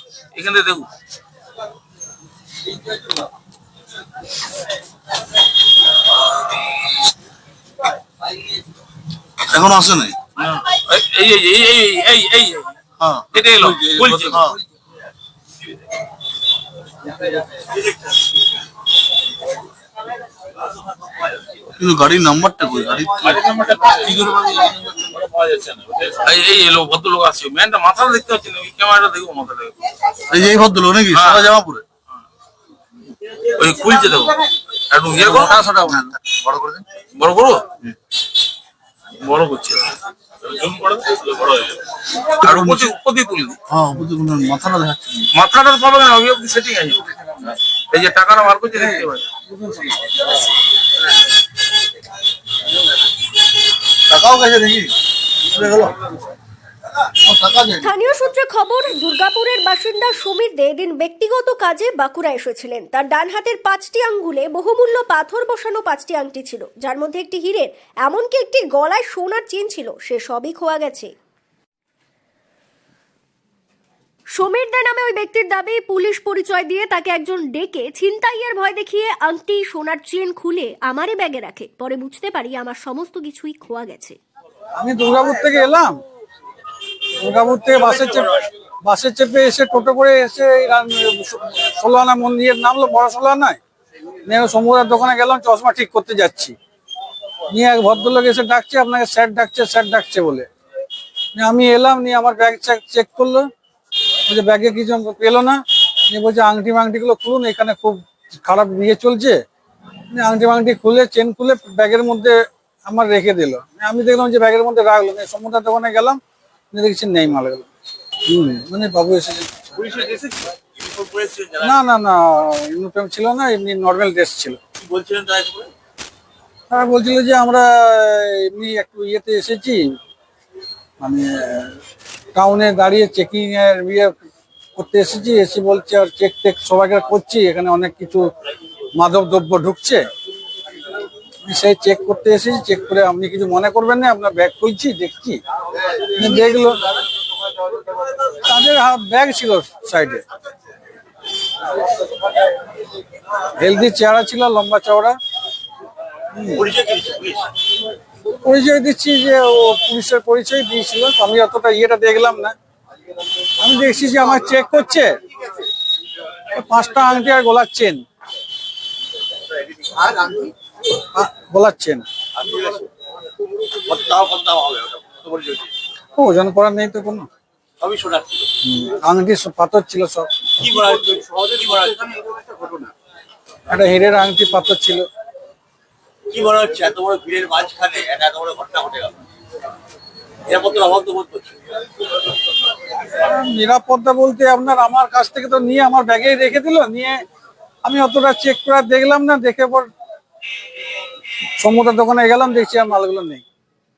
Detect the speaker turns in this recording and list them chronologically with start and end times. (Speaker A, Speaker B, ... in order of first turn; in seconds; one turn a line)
Speaker A: 0.3-0.9
Speaker B: 9.5-10.2
Speaker A: 10.4-12.8
Speaker B: 13.0-14.5
Speaker A: 13.3-14.5
Speaker B: 21.8-23.1
Speaker A: 23.2-29.7
Speaker B: 30.3-31.8
Speaker A: 31.1-31.5
Speaker A: 33.5-36.0
Speaker B: 35.3-36.8
Speaker A: 37.1-37.7
Speaker A: 39.2-43.6
Speaker B: 42.5-42.9
Speaker B: 43.7-45.2
Speaker A: 45.3-49.3
Speaker C: 49.5-50.1
Speaker B: 54.1-54.9
Speaker B: 55.5-56.0
Speaker B: 57.2-57.8
Speaker D: 57.8-71.1
Speaker D: 74.3-84.2
Speaker C: 84.8-86.0
Speaker C: 87.2-93.6
Speaker C: 94.3-96.5
Speaker C: 97.5-100.5
Speaker C: 101.3-103.5
Speaker C: 104.3-109.4
Speaker C: 110.1-116.2
Speaker C: 116.7-117.7
Speaker C: 118.3-119.8
Speaker E: 119.8-121.8
Speaker C: 121.6-124.6
Speaker E: 124.8-125.7
Speaker C: 126.7-129.9
Speaker C: 131.0-131.8
Speaker C: 132.3-134.1
Speaker C: 134.8-138.3
Speaker C: 138.9-140.0
Speaker C: 141.4-145.4
Speaker C: 146.1-146.9
Speaker C: 148.4-150.2
Speaker C: 153.6-155.2
Speaker C: 156.3-156.6
Speaker E: 156.5-157.5
Speaker C: 158.4-162.5
Speaker C: 163.6-165.1
Speaker C: 166.5-168.0
Speaker E: 170.0-170.5
Speaker C: 171.1-172.1
Speaker E: 172.3-172.9
Speaker E: 173.8-175.7
Speaker C: 176.2-177.3
Speaker E: 177.8-178.5
Speaker C: 178.6-180.3
Speaker E: 180.6-182.9
Speaker C: 183.7-185.0
Speaker E: 186.3-189.2
Speaker E: 190.5-191.6
Speaker C: 193.1-197.2
Speaker C: 197.8-199.9
Speaker C: 201.6-203.4